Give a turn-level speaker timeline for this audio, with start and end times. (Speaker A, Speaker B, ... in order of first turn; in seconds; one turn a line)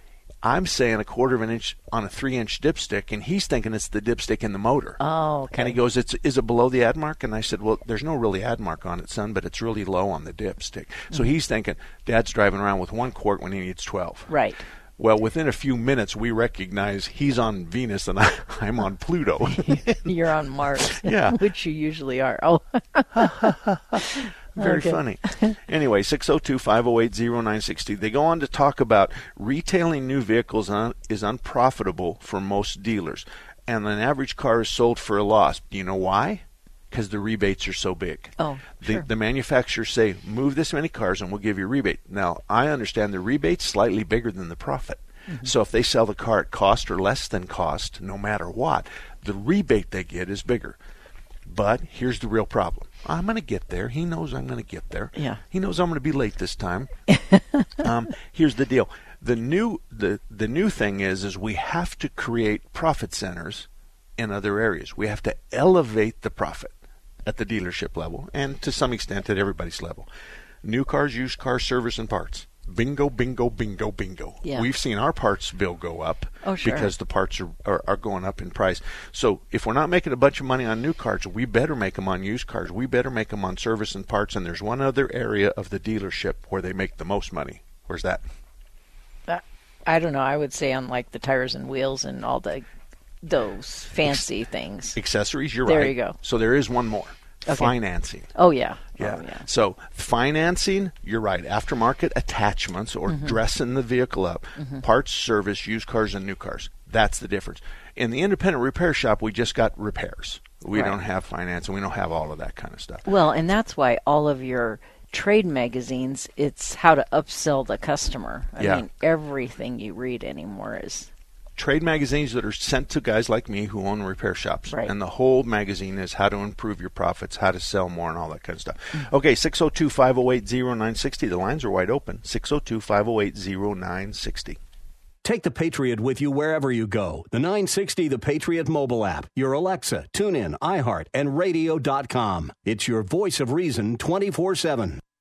Speaker A: 0.4-5.0
Speaker B: 5.0-5.8
Speaker A: 5.5-14.4
Speaker B: 14.3-14.6
Speaker A: 15.0-20.0
Speaker B: 19.6-23.4
Speaker A: 20.8-21.4
Speaker A: 23.1-24.0
Speaker B: 24.0-25.5
Speaker A: 24.6-50.8
Speaker B: 38.4-39.1
Speaker A: 51.5-56.9
Speaker B: 55.1-55.4
Speaker B: 57.1-57.7
Speaker A: 57.8-63.7
Speaker A: 64.2-70.1
Speaker A: 70.6-88.2
Speaker B: 76.4-76.9
Speaker B: 89.3-92.7
Speaker B: 93.2-95.0
Speaker A: 94.9-98.3
Speaker B: 95.6-96.2
Speaker B: 97.5-97.7
Speaker B: 98.3-99.5
Speaker A: 99.0-113.0
Speaker B: 103.1-103.4
Speaker B: 104.6-104.8
Speaker B: 113.0-121.1
Speaker A: 118.6-118.8
Speaker A: 121.5-134.6
Speaker C: 135.2-145.0